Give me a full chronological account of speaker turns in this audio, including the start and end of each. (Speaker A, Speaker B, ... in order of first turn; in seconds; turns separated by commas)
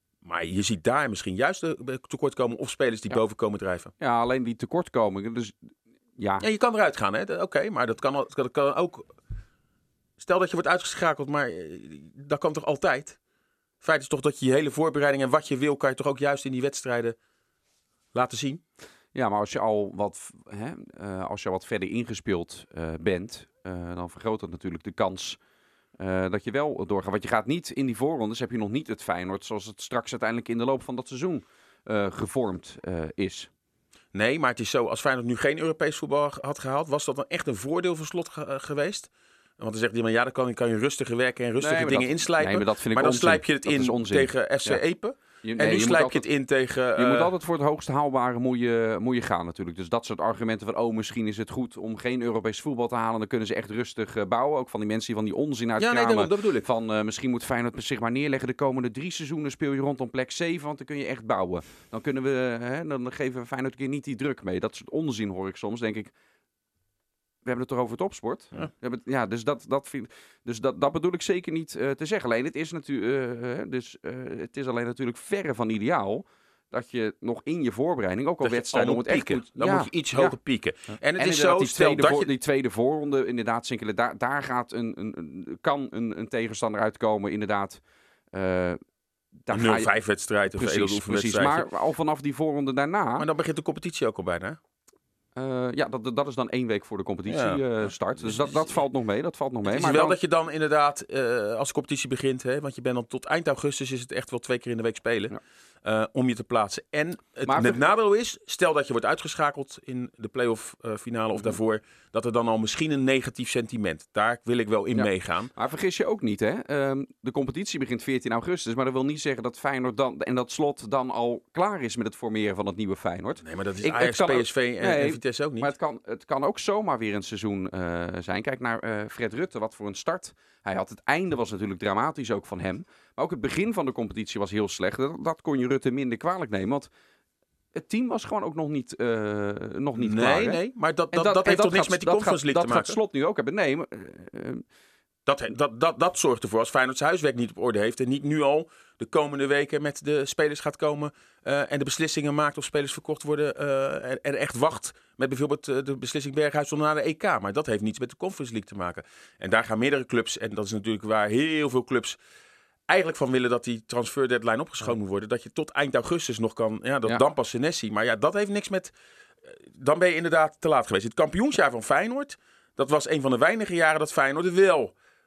Speaker A: 0.2-3.9, Speaker B: 4.0-6.4, Speaker A: 6.4-9.1, Speaker A: 10.2-13.2, Speaker A: 13.8-17.1, Speaker A: 18.1-18.6, Speaker B: 19.1-25.4, Speaker B: 26.0-33.5, Speaker A: 34.1-47.3, Speaker B: 41.6-44.8, Speaker B: 45.4-46.2, Speaker B: 46.9-66.1, Speaker A: 55.8-56.7, Speaker B: 67.4-80.4, Speaker A: 78.4-82.3, Speaker B: 81.2-87.8, Speaker B: 88.3-88.8, Speaker B: 89.5-89.9, Speaker A: 89.5-91.7, Speaker B: 90.5-93.2, Speaker A: 93.2-94.6, Speaker B: 95.3-100.2, Speaker A: 97.3-97.6, Speaker A: 98.2-98.7, Speaker A: 99.6-115.5, Speaker B: 107.5-107.8, Speaker B: 114.9-136.9, Speaker A: 123.4-125.7, Speaker B: 137.7-140.6, Speaker A: 140.0-143.0, Speaker B: 141.1-144.6, Speaker A: 145.2-162.2, Speaker A: 162.9-168.9, Speaker A: 169.4-174.9